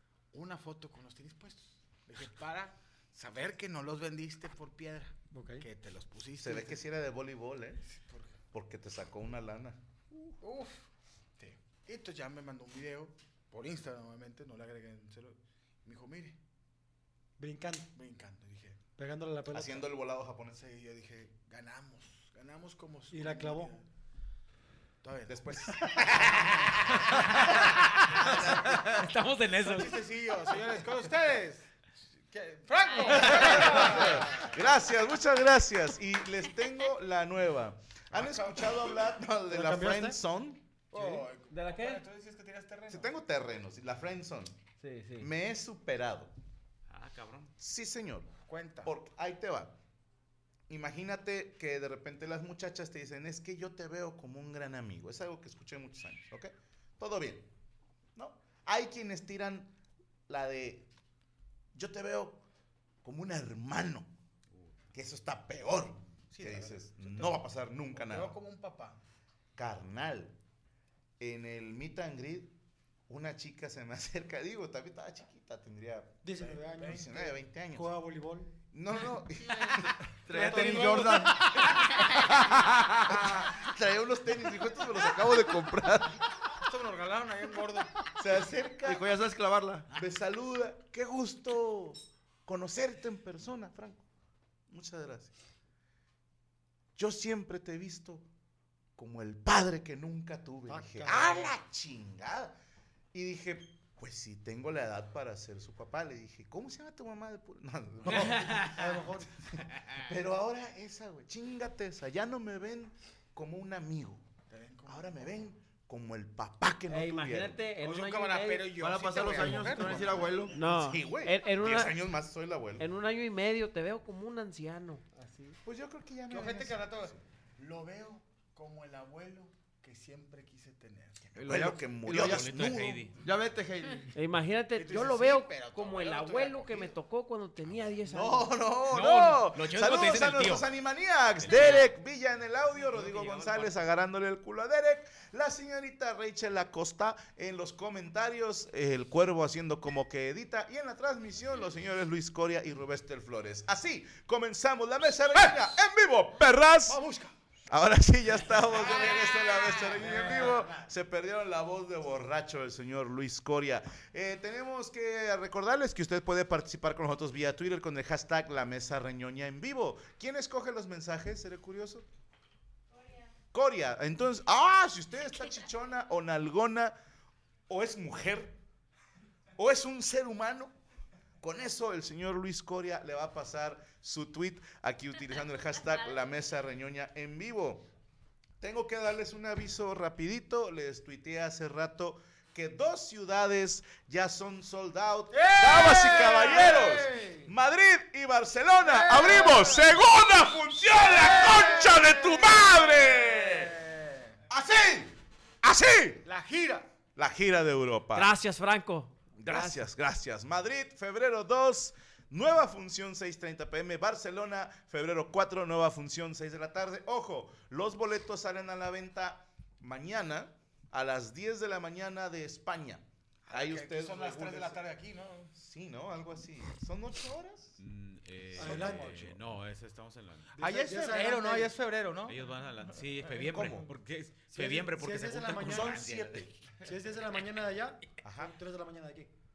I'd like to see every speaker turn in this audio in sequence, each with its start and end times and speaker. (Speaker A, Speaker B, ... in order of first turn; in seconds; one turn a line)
Speaker A: 0.3-6.8
Speaker B: 5.3-5.7
Speaker C: 6.4-7.8
Speaker A: 7.9-8.3
Speaker C: 8.5-9.8
Speaker A: 10.4-16.4
Speaker B: 17.4-17.9
Speaker A: 17.9-18.8
Speaker B: 18.9-19.8
Speaker C: 19.5-20.6
Speaker A: 20.5-23.8
Speaker B: 23.1-23.7
Speaker A: 25.0-27.6
Speaker C: 25.3-28.9
Speaker D: 27.1-30.1
Speaker A: 28.3-29.0
Speaker A: 29.6-34.5
Speaker C: 33.1-40.6
Speaker A: 38.1-38.9
Speaker B: 39.5-40.2
Speaker A: 40.9-43.1
Speaker E: 41.0-42.0
Speaker C: 42.9-44.6
Speaker E: 44.8-45.3
Speaker C: 45.2-46.3
Speaker D: 46.9-47.5
Speaker C: 47.6-48.3
Speaker A: 48.5-48.9
Speaker C: 48.8-49.8
Speaker C: 50.7-57.5
Speaker C: 58.1-59.7
Speaker C: 60.3-60.9
Speaker C: 61.7-62.4
Speaker C: 63.0-64.1
Speaker C: 64.9-68.4
Speaker A: 66.3-69.0
Speaker C: 69.5-70.3
Speaker C: 71.2-72.5
Speaker C: 73.1-77.9
Speaker B: 76.2-78.5
Speaker A: 76.4-77.1
Speaker C: 78.7-86.2
Speaker F: 80.2-81.4
Speaker A: 80.3-81.3
Speaker A: 86.5-88.0
Speaker C: 88.2-89.1
Speaker F: 88.8-89.9
Speaker C: 89.9-94.0
Speaker C: 94.7-95.3
Speaker C: 97.0-98.3
Speaker C: 99.0-102.5
Speaker B: 100.7-101.5
Speaker C: 103.1-114.2
Speaker B: 108.3-109.3
Speaker D: 108.3-108.7
Speaker A: 114.5-115.2
Speaker C: 114.8-117.6
Speaker E: 116.9-118.7
Speaker A: 117.8-120.3
Speaker F: 118.8-120.5
Speaker E: 119.4-122.0
Speaker C: 120.6-122.8
Speaker E: 122.8-125.5
Speaker C: 125.6-127.2
Speaker A: 126.3-131.7
Speaker C: 131.3-133.1
Speaker F: 131.4-134.1
Speaker D: 132.1-133.1
Speaker E: 134.1-138.5
Speaker A: 134.7-136.9
Speaker C: 138.1-157.0
Speaker D: 138.9-140.7
Speaker D: 141.4-141.9
Speaker A: 156.8-157.3
Speaker C: 157.7-172.1
Speaker A: 158.8-160.9
Speaker C: 173.5-176.9
Speaker C: 177.7-178.6
Speaker C: 179.6-180.7
Speaker C: 181.4-187.9
Speaker C: 188.6-203.8
Speaker A: 195.3-197.5
Speaker B: 196.4-197.2
Speaker A: 198.8-200.0
Speaker A: 200.9-204.4
Speaker C: 204.5-206.2
Speaker A: 206.2-206.9
Speaker C: 207.2-208.3
Speaker E: 208.1-209.8
Speaker C: 209.4-224.8
Speaker A: 223.4-225.5
Speaker C: 225.5-227.8
Speaker D: 227.8-230.5
Speaker B: 228.6-229.4
Speaker C: 228.6-229.1
Speaker B: 230.6-231.8
Speaker A: 230.6-232.4
Speaker D: 232.3-236.3
Speaker C: 233.5-233.9
Speaker B: 234.5-239.3
Speaker C: 235.6-236.5
Speaker C: 238.2-238.5